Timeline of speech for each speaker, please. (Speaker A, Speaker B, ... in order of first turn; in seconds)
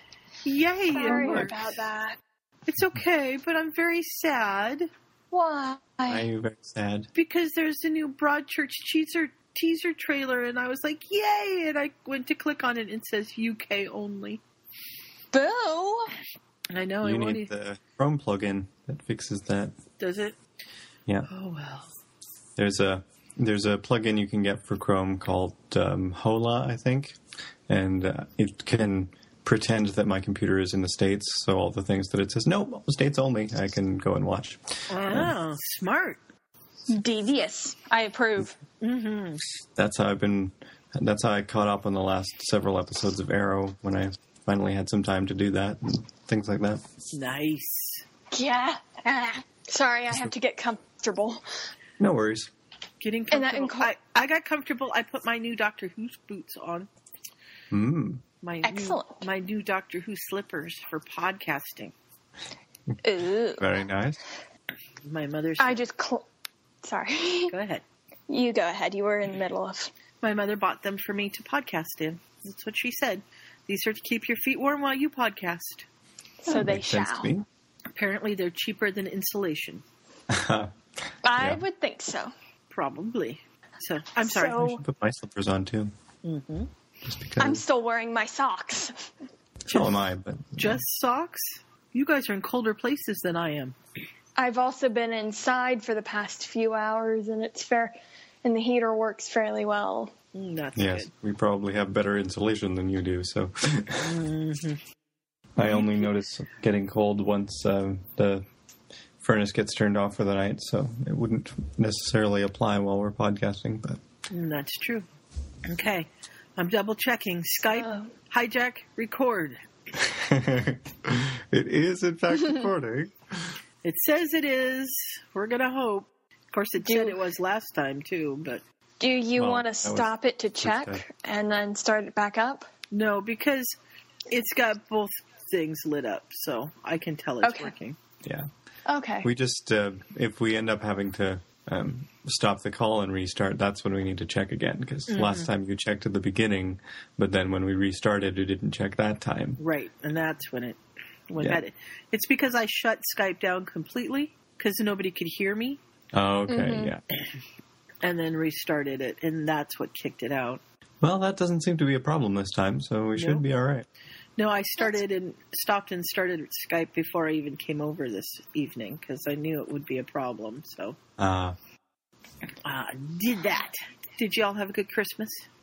Speaker A: 0.5-1.7, 2.7-4.9, 7.2-14.4, 16.7-17.5, 20.0-20.4, 21.3-21.9, 34.9-36.2, 38.8-39.4, 47.1-48.0, 53.0-56.9, 58.4-61.9, 65.0-65.7, 67.5-67.8, 70.2-75.8, 78.0-79.8, 82.7-84.6, 86.2-86.7, 90.6-93.8, 100.3-101.1, 104.0-104.8, 114.3-115.1, 115.7-119.6, 123.8-128.6, 132.9-133.8, 134.3-138.0, 145.1-145.4, 149.6-150.8, 151.3-155.8, 158.0-160.6, 163.2-163.4, 164.4-171.0, 172.7-175.4
Speaker B: 0.9-2.2, 5.3-6.3, 15.3-16.1, 36.9-38.5, 48.3-51.4, 53.3-53.9, 58.6-59.2, 63.0-63.6, 65.6-66.2, 66.8-67.5, 68.3-69.9, 76.4-77.3, 81.2-82.3, 84.2-84.8, 87.4-89.0, 94.4-100.1, 117.6-118.1, 126.8-127.2, 129.0-132.7, 137.4-137.7, 138.9-139.3, 156.5-156.9
Speaker C: 6.1-7.1, 17.0-19.7, 22.6-27.2, 27.7-35.3, 39.8-46.8, 52.0-52.5, 57.7-58.2, 63.6-64.2, 76.5-77.5, 80.3-80.7, 81.4-81.6, 84.6-85.9, 87.0-87.6, 89.7-90.8, 100.8-104.2, 105.6-108.5, 109.2-114.0, 120.0-123.1, 129.4-131.0, 139.2-149.6, 156.1-157.0, 161.0-163.9, 171.2-171.6